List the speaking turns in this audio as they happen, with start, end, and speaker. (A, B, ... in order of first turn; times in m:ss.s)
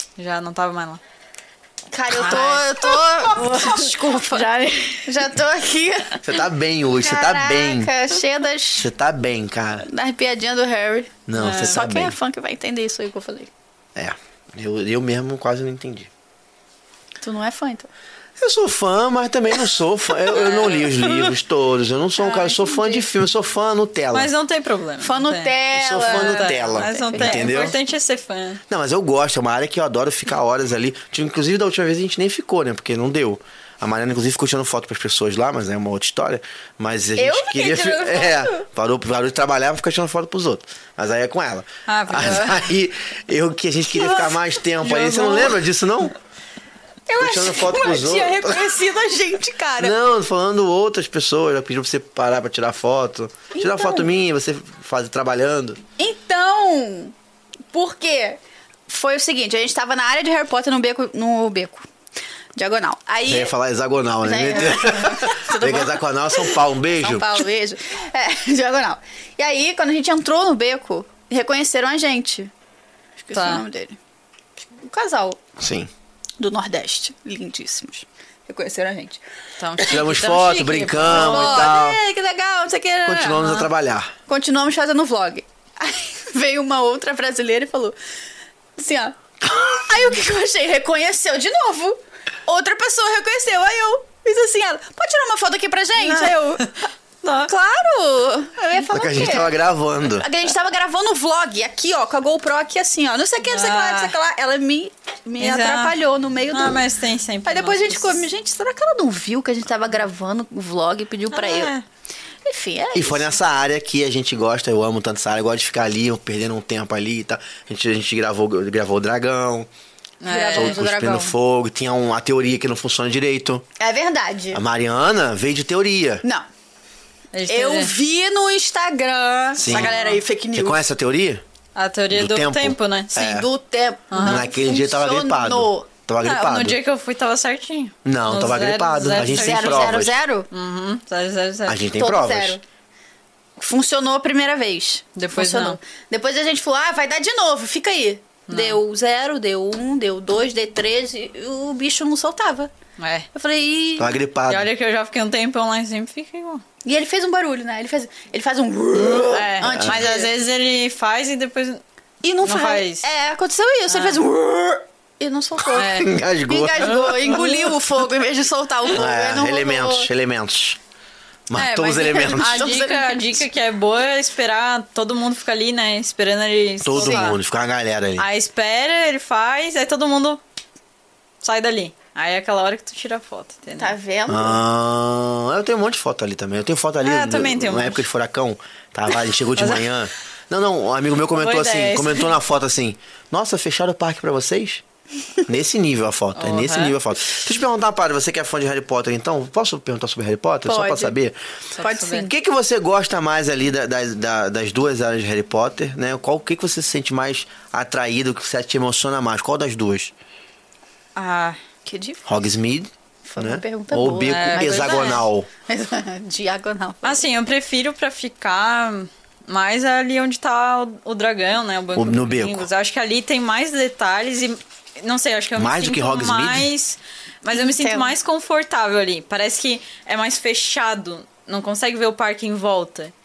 0:00.2-0:01.0 A
0:01.9-0:04.5 B
0:02.1-0:05.2 A
0:05.1-0:06.3 B
0:06.2-0:07.9 C
0:07.0-0:08.9 B
0:08.8-0:09.9 C
0:09.8-0:13.5 B
0:11.3-0:12.2 C
0:11.4-0:11.8 A
0:14.0-0:16.1 C
0:17.2-0:17.9 B
0:18.4-0:24.3 C
0:20.3-0:21.3 A
0:22.2-0:23.0 B
0:24.1-0:28.6 A
0:25.0-0:27.5 B
0:25.7-0:27.8 C
0:28.7-0:46.2 C
0:37.2-0:38.7 B
0:41.9-0:42.7 A
0:44.0-0:45.6 B
0:47.1-0:50.0 B
0:47.2-0:48.8 C
0:49.8-0:55.8 C
0:53.5-0:54.1 B
0:56.0-0:57.1 B
0:57.7-1:01.9 B
1:02.6-1:03.5 B
1:03.3-1:07.5 C
1:04.2-1:12.5 B
1:13.2-1:14.0 B
1:13.3-1:13.6 A
1:14.6-1:15.4 B
1:15.6-1:15.9 C
1:16.4-1:19.2 B
1:19.6-1:21.8 A
1:19.8-1:22.0 C
1:21.1-1:23.4 B
1:23.0-1:24.1 C
1:23.4-1:23.7 A
1:24.3-1:28.0 B
1:28.8-1:36.8 B
1:36.0-1:37.5 A
1:37.4-1:46.8 B
1:38.9-1:40.3 C
1:43.4-1:44.2 A
1:45.4-1:46.0 A
1:46.5-1:48.2 A
1:47.4-1:51.7 B
1:51.3-1:51.8 A
1:52.4-1:53.4 B
1:52.9-1:59.7 C
2:00.2-2:00.8 A
2:00.3-2:01.4 B
2:00.5-2:03.6 C
2:03.8-2:04.6 B
2:04.5-2:06.2 C
2:07.3-2:07.9 A
2:07.5-2:10.8 B
2:09.6-2:09.9 C
2:09.7-2:10.2 A
2:10.5-2:11.4 C
2:11.8-2:13.4 A
2:12.1-2:13.5 C
2:13.2-2:15.9 B
2:14.1-2:14.4 A
2:14.2-2:16.8 C
2:16.2-2:19.9 A
2:18.0-2:20.1 C
2:19.2-2:20.5 B
2:20.5-2:21.8 A
2:21.7-2:22.6 C
2:22.0-2:22.6 B
2:23.6-2:32.7 B
2:25.2-2:25.8 A
2:28.5-2:28.8 A
2:33.0-2:33.3 A
2:33.3-2:34.2 B
2:34.0-2:34.7 C
2:34.5-2:36.6 A
2:36.8-2:40.3 B
2:39.1-2:41.8 A
2:39.6-2:40.1 C
2:42.2-2:50.1 B
2:42.4-2:43.1 A
2:43.9-2:44.2 A
2:45.7-2:47.4 C
2:45.8-2:46.2 A
2:47.2-2:47.7 A
2:48.9-2:50.8 C
2:51.5-2:52.7 C
2:51.6-2:57.4 A
2:52.1-2:53.4 B
2:56.8-2:58.3 C
2:57.0-2:57.3 B
2:58.2-3:00.4 A
3:01.4-3:03.9 A
3:03.8-3:04.6 B
3:04.3-3:14.8 C
3:07.0-3:08.0 A
3:09.6-3:09.9 A
3:11.4-3:12.3 A
3:15.4-3:21.4 C
3:16.4-3:17.0 A
3:20.6-3:21.2 B
3:21.8-3:22.3 A
3:21.8-3:22.3 B
3:22.0-3:30.1 C
3:31.2-3:31.6 A
3:31.8-3:32.2 B
3:32.2-3:35.5 C
3:33.3-3:37.2 B
3:34.3-3:35.2 A
3:37.0-3:53.1 A
3:42.0-3:42.7 C
3:45.6-3:46.7 C
3:47.5-3:48.1 B